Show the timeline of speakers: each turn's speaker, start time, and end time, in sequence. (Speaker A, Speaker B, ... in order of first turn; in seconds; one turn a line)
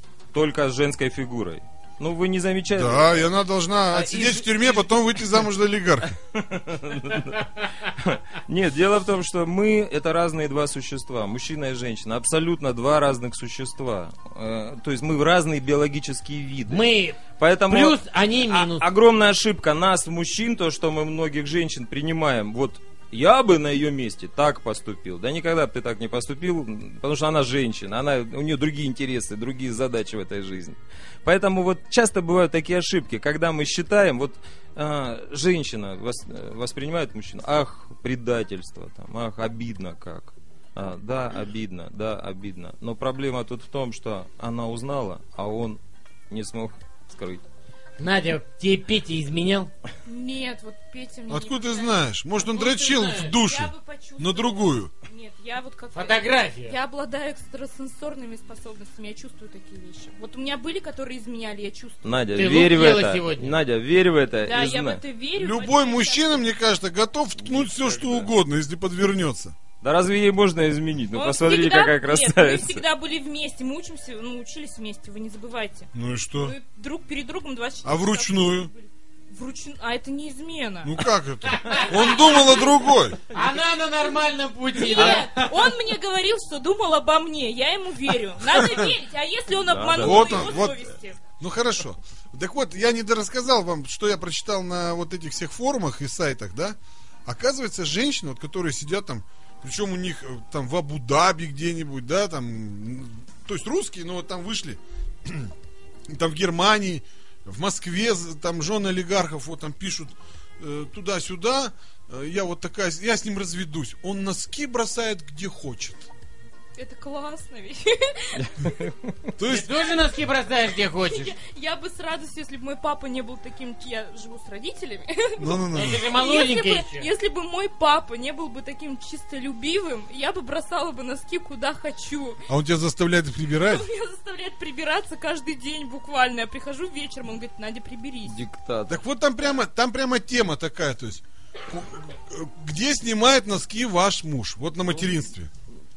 Speaker A: 0.3-3.3
Speaker B: 2.7-6.1
Speaker A: 3.9-5.4
Speaker A: 6.1-45.8
Speaker C: 16.7-18.8
Speaker A: 46.3-47.5
Speaker C: 48.0-49.7
Speaker D: 50.0-52.0
Speaker B: 51.3-54.9
Speaker C: 52.4-53.4
Speaker D: 53.3-62.0
Speaker C: 55.9-56.7
Speaker A: 62.0-65.0
Speaker C: 62.3-63.5
Speaker D: 64.4-66.4
Speaker B: 65.3-69.5
Speaker A: 67.4-68.3
Speaker A: 69.8-72.8
Speaker D: 71.1-81.0
Speaker B: 75.9-76.5
Speaker B: 77.8-78.7
Speaker B: 80.8-83.2
Speaker C: 81.5-81.9
Speaker D: 81.7-82.9
Speaker C: 83.3-85.7
Speaker D: 84.8-91.2
Speaker B: 88.5-88.9
Speaker A: 89.6-90.7
Speaker B: 90.0-90.8
Speaker B: 91.4-105.5
Speaker B: 106.1-116.1
Speaker D: 116.8-118.8
Speaker A: 118.4-119.3
Speaker B: 119.4-119.7
Speaker C: 119.4-121.3
Speaker D: 121.0-132.4
Speaker B: 125.4-126.0
Speaker C: 125.7-127.1
Speaker B: 132.5-133.9
Speaker D: 133.6-138.4
Speaker A: 138.2-139.0
Speaker B: 138.9-145.5